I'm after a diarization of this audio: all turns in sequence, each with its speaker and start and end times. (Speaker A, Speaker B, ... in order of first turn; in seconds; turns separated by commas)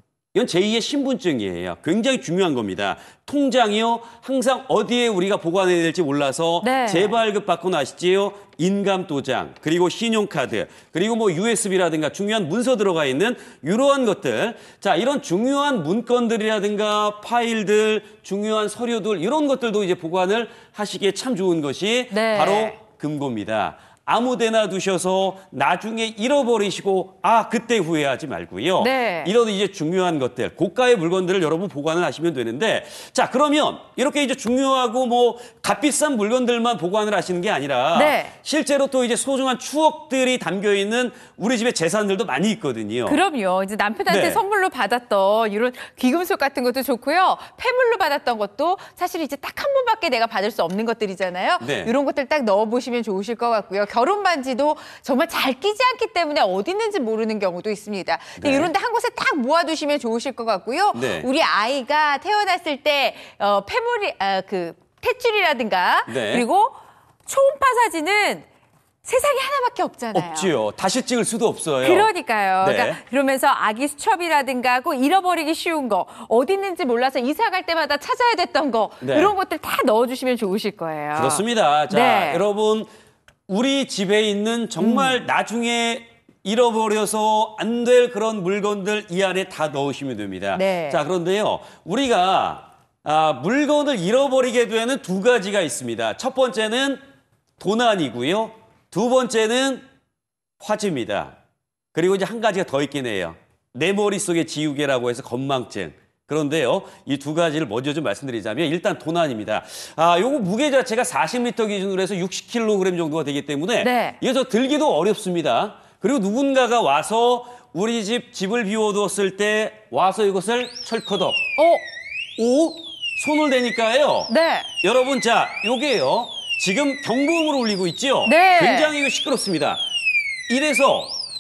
Speaker A: 0.3-43.2, Speaker B: 6.6-7.2, Speaker B: 22.1-22.8, Speaker B: 28.8-29.3, Speaker B: 37.9-38.3, Speaker B: 43.1-66.8, Speaker A: 44.1-44.4, Speaker A: 51.6-51.9, Speaker A: 58.4-58.7, Speaker A: 60.9-61.3, Speaker A: 66.1-66.5, Speaker B: 67.3-68.5, Speaker B: 69.0-70.5, Speaker A: 70.1-72.1, Speaker B: 71.8-82.4, Speaker A: 72.6-73.0, Speaker A: 79.0-79.3, Speaker A: 81.1-82.9, Speaker A: 83.5-97.0, Speaker B: 84.8-85.2, Speaker B: 90.5-91.0, Speaker A: 97.6-99.8, Speaker A: 100.6-101.3, Speaker A: 101.9-121.5, Speaker B: 113.8-114.2, Speaker B: 121.6-121.8, Speaker A: 122.4-129.8, Speaker B: 124.3-124.7, Speaker B: 128.2-128.9, Speaker A: 130.5-131.2